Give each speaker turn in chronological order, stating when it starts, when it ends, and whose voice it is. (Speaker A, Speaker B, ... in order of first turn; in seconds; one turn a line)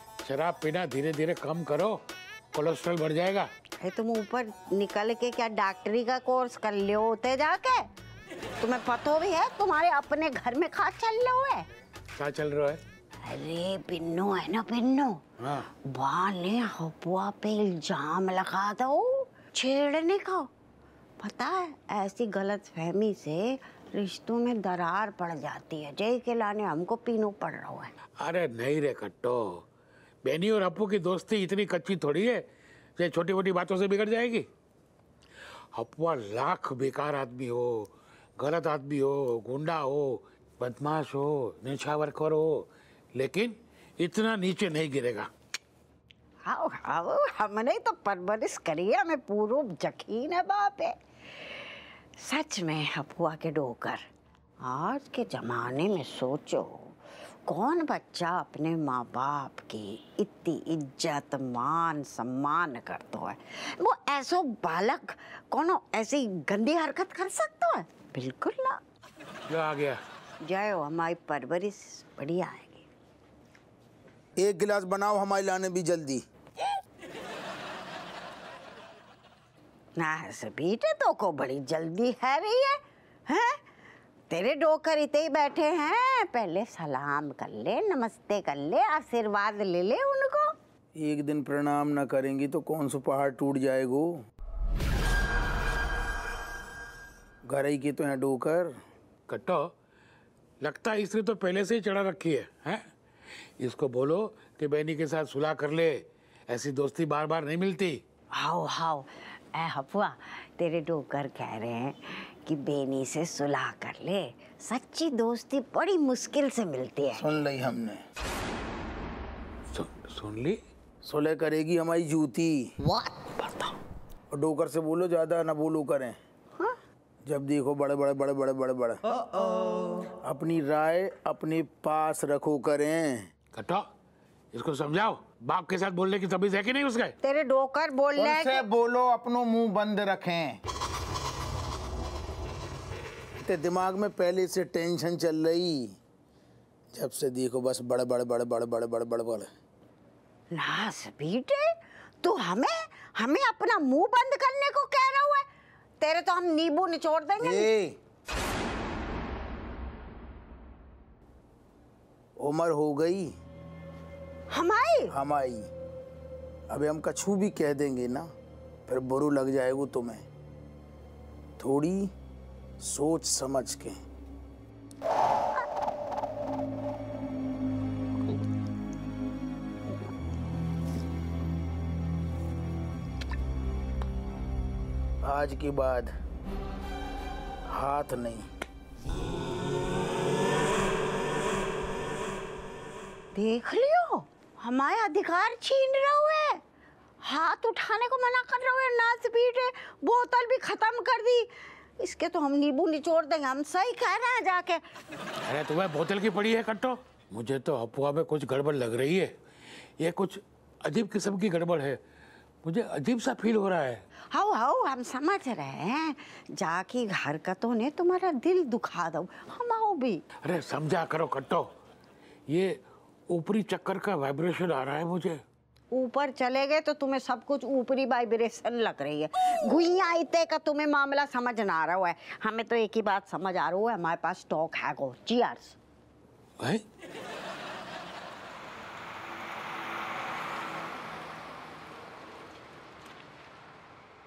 Speaker A: 0.2-2.0
Speaker A: 2.5-3.5
Speaker B: 3.8-7.8
Speaker B: 8.6-11.7
Speaker A: 12.2-12.8
Speaker B: 13.2-15.2
Speaker A: 15.4-15.6
Speaker B: 15.8-20.5
Speaker B: 21.2-27.9
Speaker A: 28.2-29.6
Speaker A: 30.2-32.4
Speaker A: 33.0-34.5
Speaker A: 35.7-45.3
Speaker B: 46.5-50.9
Speaker B: 52.2-54.0
Speaker B: 54.6-56.9
Speaker B: 57.5-68.8
Speaker A: 69.5-70.0
Speaker B: 70.4-72.9
Speaker C: 74.4-76.2
Speaker B: 80.0-83.5
Speaker B: 84.3-90.5
Speaker C: 91.0-94.1
Speaker C: 97.5-98.7
Speaker A: 99.3-99.7
Speaker A: 100.6-102.8
Speaker A: 103.6-106.0
Speaker A: 106.5-108.0
Speaker B: 108.3-117.3
Speaker C: 117.2-118.0
Speaker A: 119.7-120.6
Speaker C: 121.0-122.6
Speaker C: 124.3-126.2
Speaker C: 127.3-129.0
Speaker C: 130.2-133.3
Speaker A: 133.5-133.8
Speaker A: 134.5-137.1
Speaker B: 137.2-138.7
Speaker C: 138.2-140.6
Speaker C: 143.4-145.8
Speaker C: 146.9-149.5
Speaker B: 150.5-151.7
Speaker B: 152.2-155.4
Speaker B: 156.0-157.7
Speaker C: 157.4-157.9
Speaker C: 162.4-163.3
Speaker B: 164.5-165.1
Speaker C: 165.1-165.7
Speaker C: 166.7-168.3
Speaker C: 168.9-170.2
Speaker C: 171.6-172.1
Speaker C: 172.8-173.9
Speaker C: 185.2-186.1
Speaker C: 187.7-188.4
Speaker B: 193.3-196.6
Speaker B: 197.2-201.5
Speaker B: 202.0-204.8
Speaker A: 205.4-209.3
Speaker A: 210.0-212.0
Speaker A: 212.6-214.0
Speaker B: 214.3-220.2
Speaker A: 220.4-221.7
Speaker A: 222.5-222.8
Speaker A: 223.3-225.4
Speaker B: 225.9-235.8